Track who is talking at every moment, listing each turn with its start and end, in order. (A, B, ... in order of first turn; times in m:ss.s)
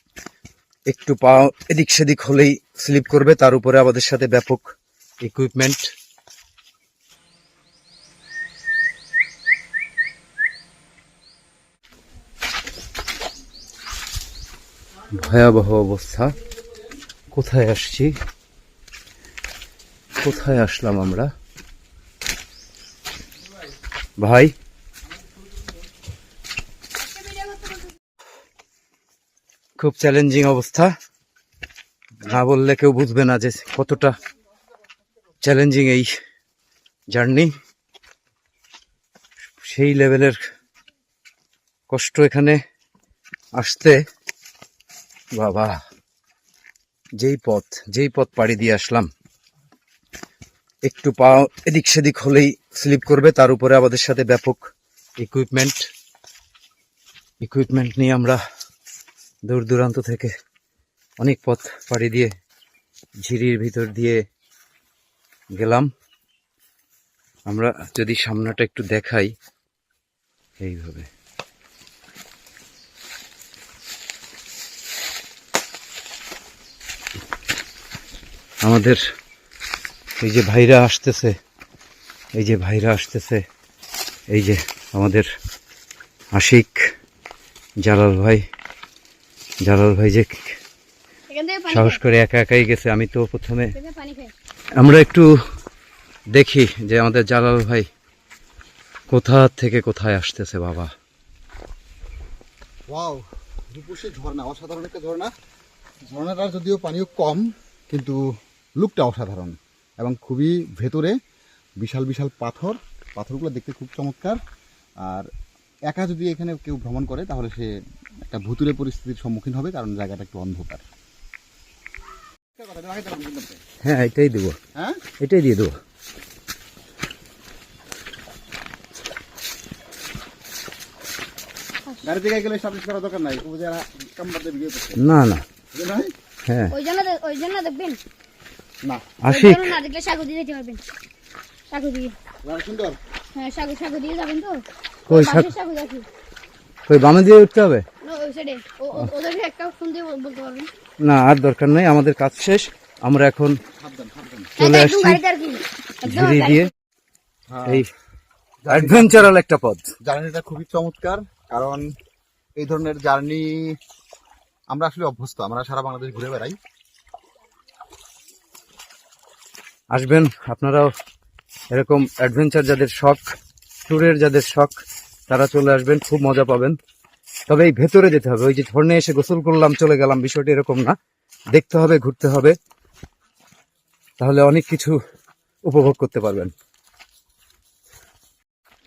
0:00.9-0:04.7 A
0:05.2-0:05.9 A
0:15.1-0:16.4 A
0:17.3-0:18.2 A
0:20.2-0:21.3 A
0:24.2-0:24.5 A
0:27.1-0:27.9 B
0:29.8-0:30.9 A
0:32.2-0:34.1 A
0:35.4-0:36.1 A
0:37.1-0:37.5 A
0:39.6-0:40.4 A
0:41.9-0:42.6 A
0:43.6-0:44.0 A
0:45.4-0:45.8 A
0:47.2-0:49.1 A
0:50.8-0:55.8 A
0:57.4-0:58.4 A
0:59.4-1:00.3 A
1:01.2-1:02.3 A
1:03.2-1:04.2 A
1:05.5-1:05.9 A
1:07.5-1:09.3 A
1:10.6-1:11.1 A
1:18.6-1:19.0 A
1:20.2-1:21.4 A
1:22.4-1:23.4 A
1:24.3-1:25.3 A
1:26.3-1:26.9 A
1:27.8-1:28.4 A
1:29.6-1:30.6 A
1:31.3-1:32.0 B
1:31.7-1:33.7 A
1:33.8-1:34.3 B
1:34.8-1:35.4 A
1:36.3-1:37.9 A
1:39.1-1:40.9 A
1:42.9-1:45.3 C
1:46.1-1:48.2 C
1:48.8-1:51.2 C
1:51.8-1:54.4 C
1:55.0-1:55.3 C
1:55.9-1:57.7 C
1:58.3-2:00.8 C
2:02.6-2:03.6 C
2:03.8-2:04.6 A
2:04.8-2:05.0 C
2:05.2-2:05.8 A
2:12.0-2:15.0 C
2:15.0-2:15.4 A
2:15.7-2:16.1 C
2:16.5-2:16.7 A
2:16.7-2:18.0 B
2:18.8-2:19.1 C
2:19.2-2:19.7 A
2:19.3-2:20.8 B
2:21.7-2:22.1 B
2:22.4-2:23.0 C
2:23.4-2:26.0 B
2:25.1-2:25.5 A
2:26.9-2:27.8 A
2:28.0-2:30.7 B
2:31.0-2:33.6 A
2:33.8-2:34.5 C
2:34.6-2:35.2 A
2:34.6-2:36.7 B
2:36.0-2:36.7 A
2:37.5-2:37.8 C
2:38.6-2:39.3 C
2:38.7-2:39.9 A
2:40.0-2:41.9 C
2:42.6-2:43.8 C
2:44.7-2:46.6 C
2:49.9-2:50.9 A
2:51.7-2:53.3 A
2:53.9-2:56.8 A
2:57.5-3:00.9 A
3:01.5-3:02.6 A
3:04.2-3:05.0 A
3:05.7-3:06.5 A